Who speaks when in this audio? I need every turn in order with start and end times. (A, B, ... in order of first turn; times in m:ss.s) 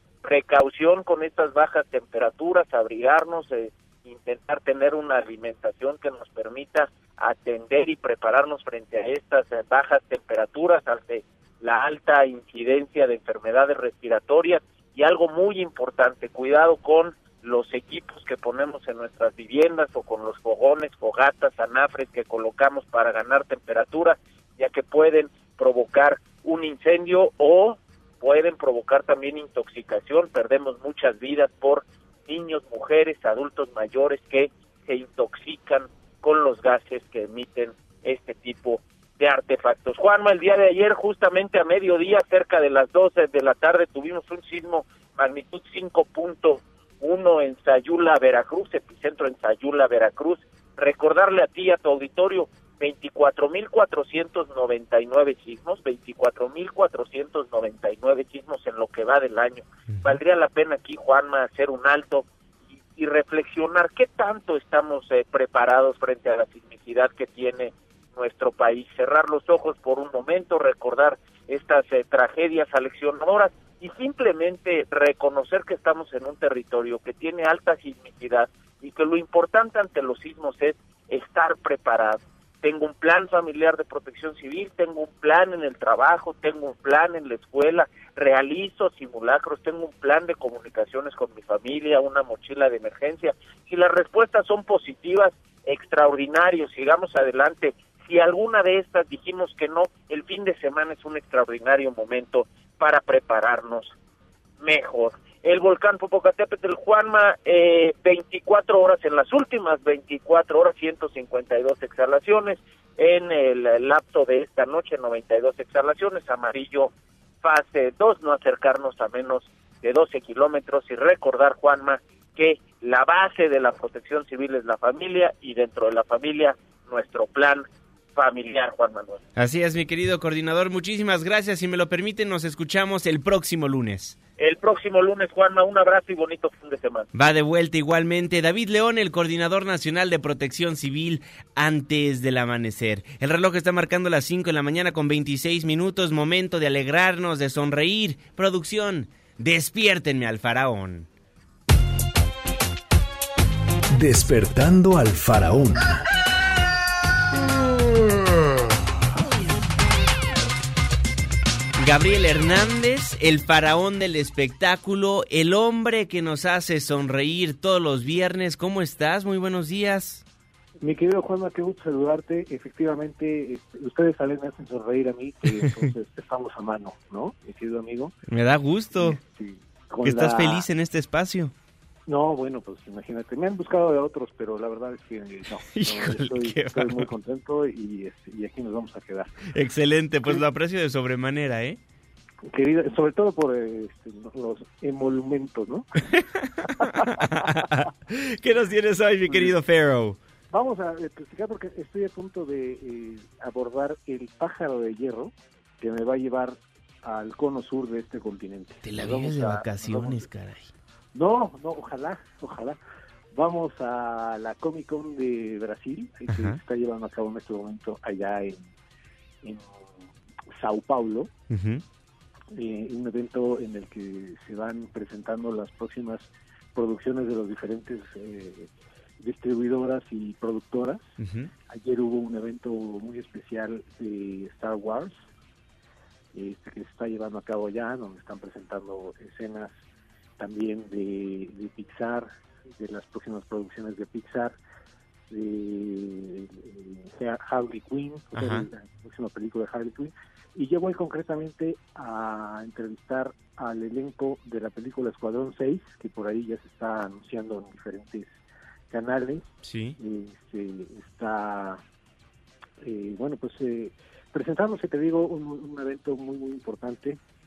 0:00.2-1:02.2 A
0:59.9-1:00.2 B
1:03.0-1:43.9 A
1:44.6-1:56.9 A
1:57.4-2:07.6 A
2:08.1-2:09.2 A
2:09.4-2:14.2 B
2:14.4-2:17.1 A
2:17.1-2:31.1 B
2:33.9-2:36.0 C
2:41.8-2:50.2 B
2:50.8-2:58.1 D
2:58.3-2:59.2 B
2:58.9-3:00.6 D
3:00.0-3:01.5 B
3:02.1-3:09.3 D
3:05.7-3:07.1 B
3:09.5-3:11.8 B
3:12.5-3:15.9 D
3:16.1-3:20.2 B
3:16.8-3:17.2 D
3:19.3-3:19.5 D
3:20.5-3:30.2 D
3:28.8-3:30.7 B
3:31.1-3:32.8 D
3:33.3-3:38.7 D
3:36.3-3:36.6 B
3:39.4-3:39.8 D
3:40.5-3:41.3 D
3:41.5-3:41.8 B
3:42.5-3:48.7 D
3:49.2-3:51.1 D
3:51.2-3:51.5 B
3:51.7-3:55.2 D
3:56.3-3:59.7 D
4:00.4-4:04.6 D
4:05.3-4:18.3 D
4:08.3-4:08.7 B
4:18.9-4:19.4 D
4:19.6-4:20.0 B
4:20.0-4:21.8 D
4:22.8-4:27.2 D